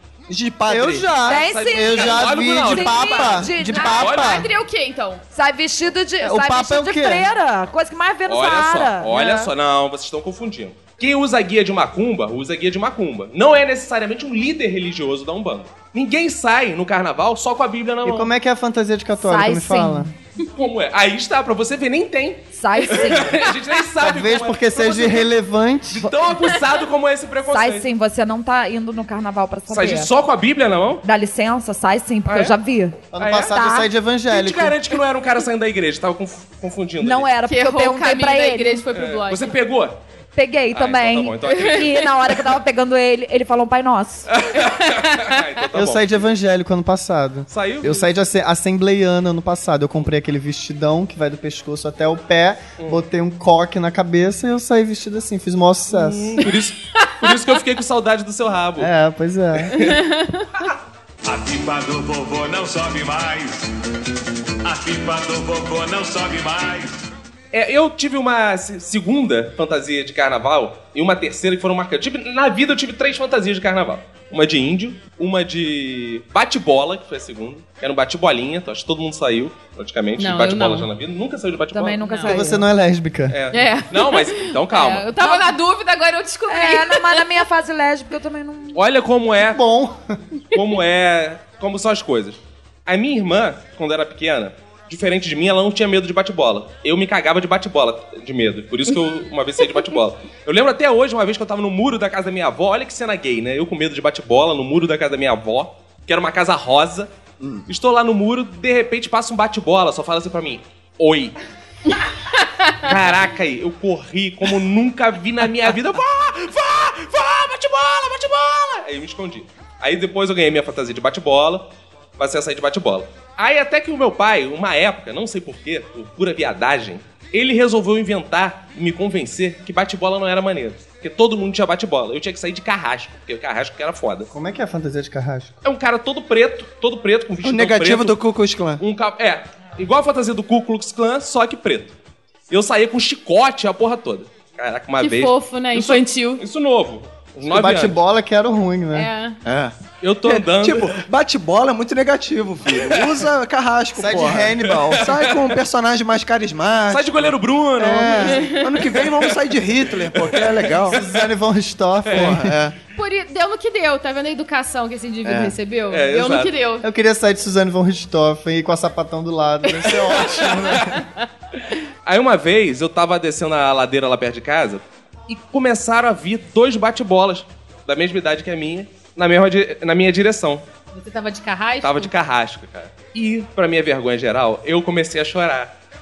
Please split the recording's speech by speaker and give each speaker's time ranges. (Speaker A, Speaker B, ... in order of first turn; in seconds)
Speaker A: 0.3-1.1, 137.4-138.8, 149.4-161.0, 162.1-162.7, 165.2-165.6
Speaker B: 0.7-4.5, 6.2-7.3, 18.0-20.1, 24.0-26.1, 33.1-34.8, 45.7-56.5, 58.8-59.8, 82.2-83.4, 89.4-90.2, 134.3-135.5, 147.4-149.1, 153.9-155.1, 160.9-162.6, 166.8-171.0
Speaker C: 1.2-4.2, 5.3-9.5, 19.2-20.1, 22.5-23.4, 27.5-30.1, 31.0-33.8, 37.0-38.8, 40.3-44.3, 81.7-82.7, 85.2-85.5, 86.5-88.8
Speaker D: 1.3-4.4, 8.3-18.3, 20.5-25.3, 25.9-27.9, 29.7-31.0, 32.2-32.6, 33.2-33.6, 34.3-37.3, 38.9-40.0, 40.7-41.9, 44.3-46.1, 47.5-48.1, 55.9-58.9, 59.6-60.0, 67.5-82.0, 83.3-85.1, 88.7-89.6, 90.5-107.1, 107.7-111.3, 112.8-121.7, 122.2-134.3, 135.6-138.2, 138.8-141.9, 142.5-148.0, 150.0-151.0, 152.7-153.3, 154.7-155.6, 156.9-161.1, 162.0-162.4, 165.9-166.5, 172.0-180.6, 181.8-185.7
Speaker E: 2.9-5.2, 22.8-23.5, 37.4-39.5, 41.5-42.0, 44.6-45.3, 59.7-60.5, 80.2-80.9, 82.0-82.4, 83.5-87.2, 145.0-146.4, 148.9-149.4, 162.9-166.9, 169.8-170.2, 180.9-182.1
Speaker F: 61.2-63.6, 64.6-67.0